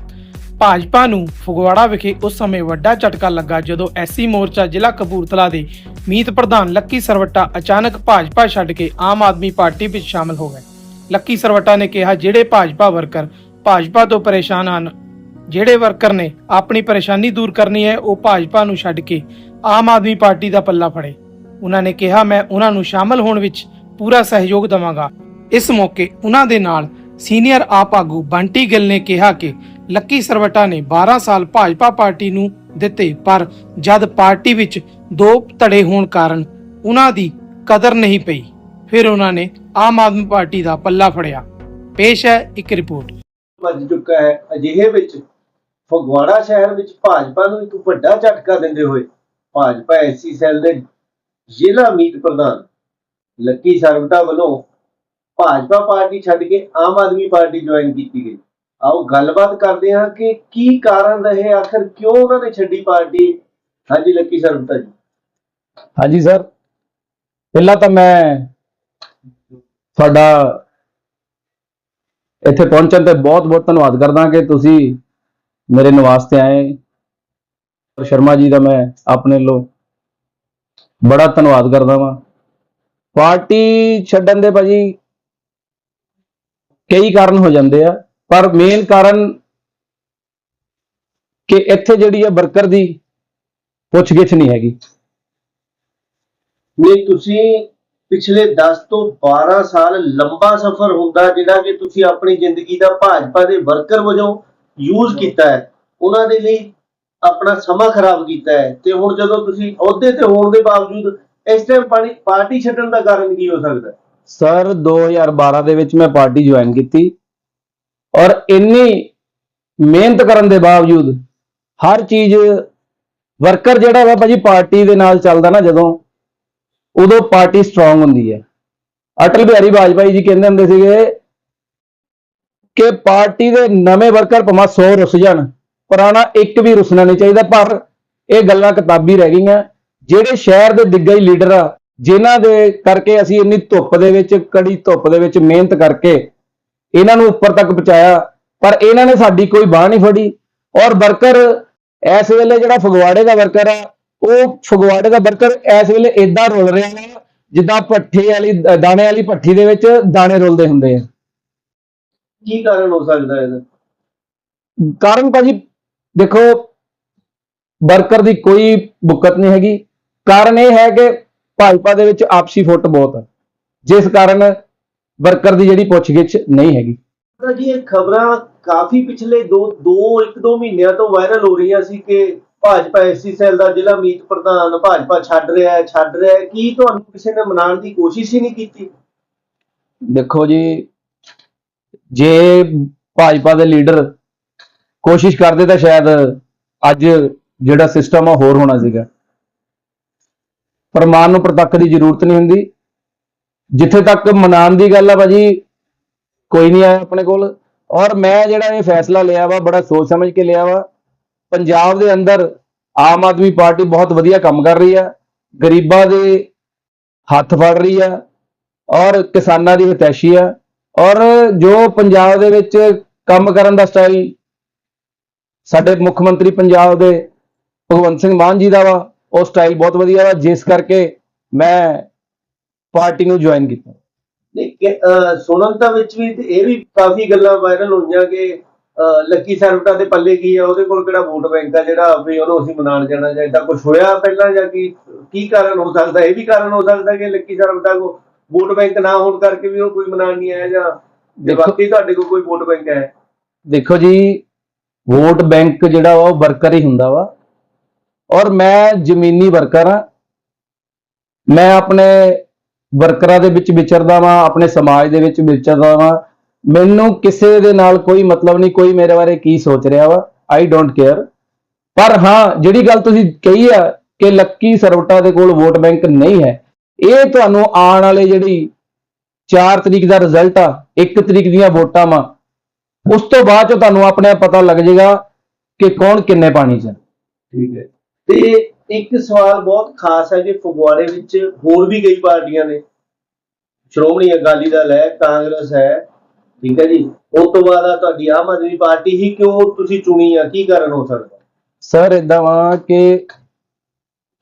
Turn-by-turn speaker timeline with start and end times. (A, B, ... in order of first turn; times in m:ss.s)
0:00.6-0:14.9 A
0:15.5-0:41.4 A
0:42.0-0:43.1 A
0:43.6-0:45.2 B
0:45.9-0:50.8 B
0:51.5-0:52.6 B
0:53.4-0:54.6 B
0:55.4-1:03.4 B
1:03.9-1:04.9 B
1:06.0-1:06.4 C
1:07.5-1:08.5 C
1:10.0-1:10.6 C
1:12.4-1:15.0 C
1:15.7-1:16.8 C
1:18.0-1:19.7 C
1:21.0-1:22.2 C
1:23.2-1:25.0 C
1:26.9-1:29.4 C
1:31.5-1:33.0 C
1:33.9-1:34.8 C
1:36.8-1:46.7 B
1:47.2-1:54.0 B
1:54.3-1:57.2 C
1:58.2-1:59.1 C
1:59.8-2:01.1 C
2:01.8-2:02.7 C
2:03.4-2:06.0 C
2:07.0-2:08.4 C
2:09.2-2:11.2 C
2:12.8-2:26.3 C
2:26.9-2:41.0 C
2:42.4-2:43.6 B
2:45.0-2:45.6 C
2:46.2-2:46.7 C
2:47.9-2:53.2 C
2:53.8-2:54.5 C
2:55.2-2:57.0 C
2:57.4-3:08.9 B
3:10.1-3:10.9 C
3:12.1-3:14.1 C
3:15.0-3:19.1 C
3:20.9-3:22.7 C
3:23.7-3:25.6 C
3:26.5-3:30.8 C
3:31.5-3:32.4 C
3:33.0-3:36.5 C
3:37.3-3:38.2 C
3:38.9-3:44.4 C
3:45.7-3:47.3 C
3:47.9-3:52.0 C
3:52.9-3:54.0 C
3:54.5-4:13.1 B
4:11.4-4:11.8 C
4:13.7-4:14.4 C
4:15.1-4:17.3 C
4:18.3-4:20.0 C
4:21.5-4:22.4 C
4:22.9-4:26.2 C
4:26.7-4:31.2 C
4:32.0-4:38.7 C
4:39.5-4:42.2 C
4:43.1-4:45.2 C
4:45.8-4:47.0 C
4:47.5-4:52.8 B
4:53.9-4:56.0 B
4:56.6-5:01.4 B
5:01.8-5:03.2 C